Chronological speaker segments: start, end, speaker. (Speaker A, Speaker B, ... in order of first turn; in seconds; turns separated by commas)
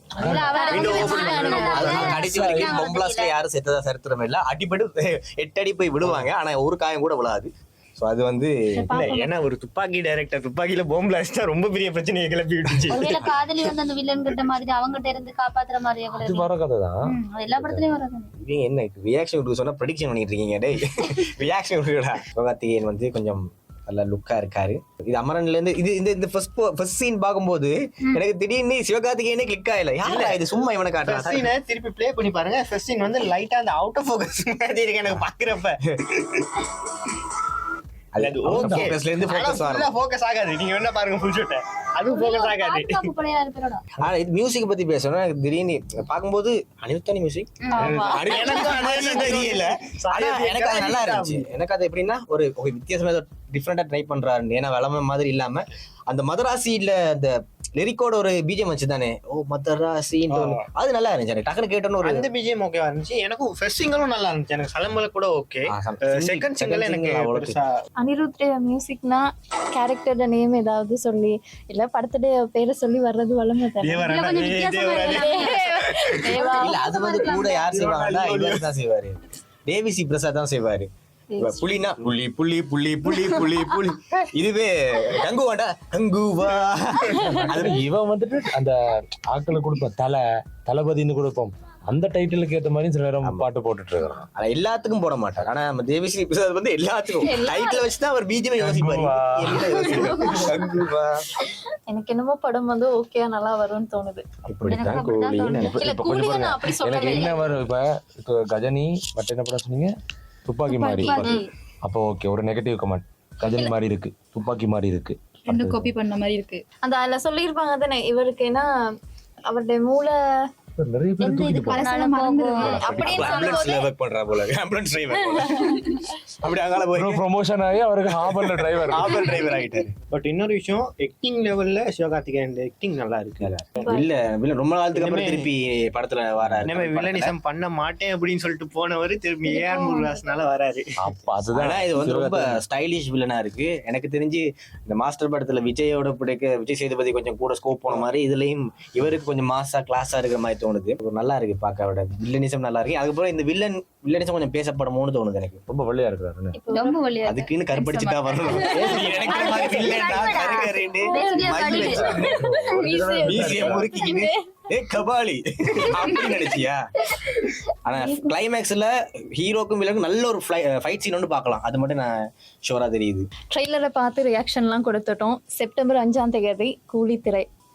Speaker A: 0.2-0.6, Speaker B: 0.2-3.4, Speaker C: 0.3-2.3, Speaker D: 0.4-1.8, Speaker E: 0.7-8.9, Speaker A: 1.7-2.7, Speaker D: 8.8-9.3, Speaker C: 8.9-13.2, Speaker B: 12.9-16.5, Speaker A: 16.1-17.9, Speaker B: 17.1-18.3, Speaker E: 18.4-31.4, Speaker C: 30.0-30.4, Speaker C: 31.1-35.8, Speaker E: 38.1-39.9, Speaker C: 38.2-43.1, Speaker A: 38.5-38.9, Speaker B: 42.1-43.8, Speaker E: 44.0-62.3, Speaker B: 47.6-47.9, Speaker D: 47.7-49.4, Speaker C: 47.8-51.5, Speaker C: 60.3-60.7, Speaker C: 62.0-67.8, Speaker E: 65.7-67.6, Speaker D: 68.0-74.1, Speaker C: 73.8-76.3, Speaker B: 74.0-77.6, Speaker D: 75.1-76.9, Speaker E: 76.6-87.8, Speaker C: 77.2-78.7, Speaker A: 87.2-88.7, Speaker A: 89.3-94.3, Speaker E: 94.3-101.2, Speaker B: 97.2-97.9, Speaker A: 98.6-100.2, Speaker B: 99.9-100.6, Speaker D: 101.9-104.2, Speaker E: 104.5-105.8, Speaker A: 104.5-109.9, Speaker B: 104.7-105.8, Speaker D: 105.8-107.5, Speaker A: 110.5-115.9, Speaker F: 110.7-111.0, Speaker B: 111.0-111.5, Speaker D: 111.2-111.4, Speaker F: 115.5-116.6, Speaker D: 116.8-118.7, Speaker D: 119.5-120.2, Speaker A: 120.8-121.9, Speaker F: 121.2-122.8, Speaker B: 121.2-123.3, Speaker A: 122.6-123.4, Speaker D: 122.7-123.9, Speaker E: 122.9-125.8, Speaker E: 126.4-127.2, Speaker A: 126.9-129.4, Speaker C: 128.8-133.9, Speaker E: 129.2-129.9, Speaker E: 133.4-137.3, Speaker D: 133.8-134.1, Speaker C: 134.9-135.5, Speaker C: 136.6-140.9, Speaker B: 139.5-140.2, Speaker A: 141.0-142.6, Speaker E: 141.5-155.6, Speaker A: 155.7-156.6, Speaker D: 156.5-157.0, Speaker B: 156.7-162.9, Speaker E: 157.2-162.4, Speaker D: 159.2-159.9, Speaker D: 161.1-161.4, Speaker A: 161.8-163.9, Speaker D: 162.5-164.4, Speaker E: 163.2-166.8, Speaker E: 167.8-173.3, Speaker D: 173.5-177.5